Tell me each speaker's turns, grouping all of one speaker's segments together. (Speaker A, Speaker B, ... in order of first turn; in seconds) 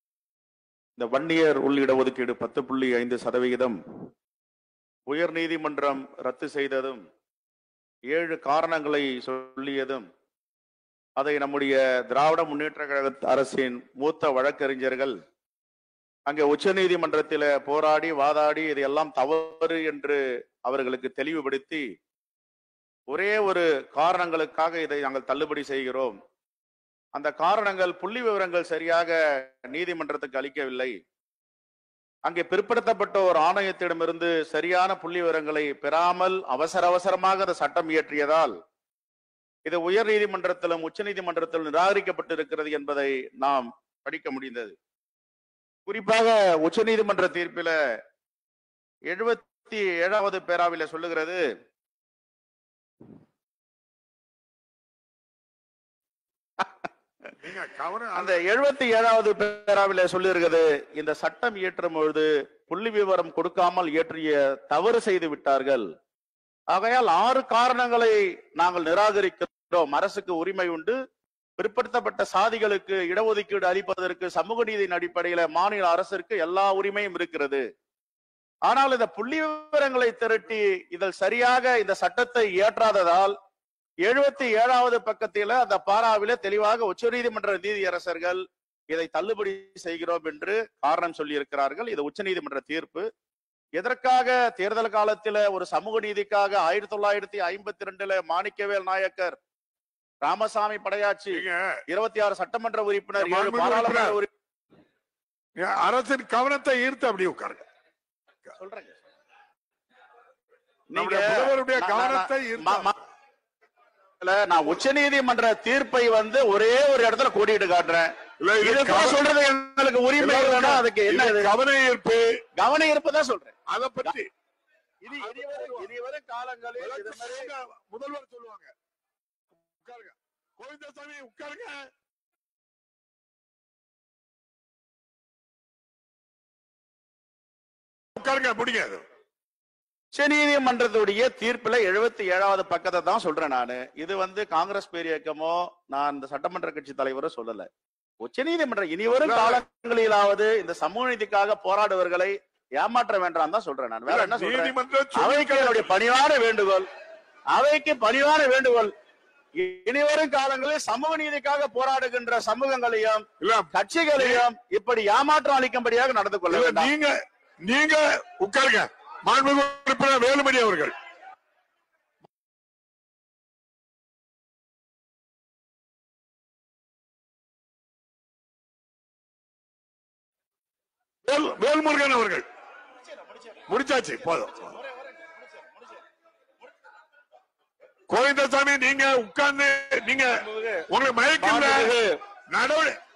Speaker A: 1.0-3.8, 5.1-7.0, 8.1-10.1, 11.2-15.2, 16.3-21.9, 23.1-26.2, 27.1-31.0, 32.3-38.5, 39.7-44.8, 45.9-47.8, 49.1-51.4, 56.6-56.8, 58.1-65.9, 66.7-71.0, 71.6-77.6, 78.7-83.3, 84.1-93.1, 93.8-99.4, 100.2-104.3, 108.6-109.0, 110.9-112.9, 114.2-121.5, 122.6-123.5, 125.0-127.5, 140.1-147.7, 148.2-156.9, 157.5-158.9, 159.6-166.9, 183.0-183.6, 184.2-186.0, 190.3-190.8, 191.4-192.1
Speaker B: 57.4-58.4, 101.3-101.8, 103.2-104.2, 105.6-107.7, 110.9-112.9, 118.4-119.2, 120.2-122.4, 123.7-124.3, 125.2-125.9, 126.8-128.7, 129.8-131.9, 138.2-139.0, 149.1-149.6, 154.1-155.9, 163.4-164.4, 166.5-170.9, 181.2-182.4, 183.7-184.7, 188.1-192.0, 192.5-193.0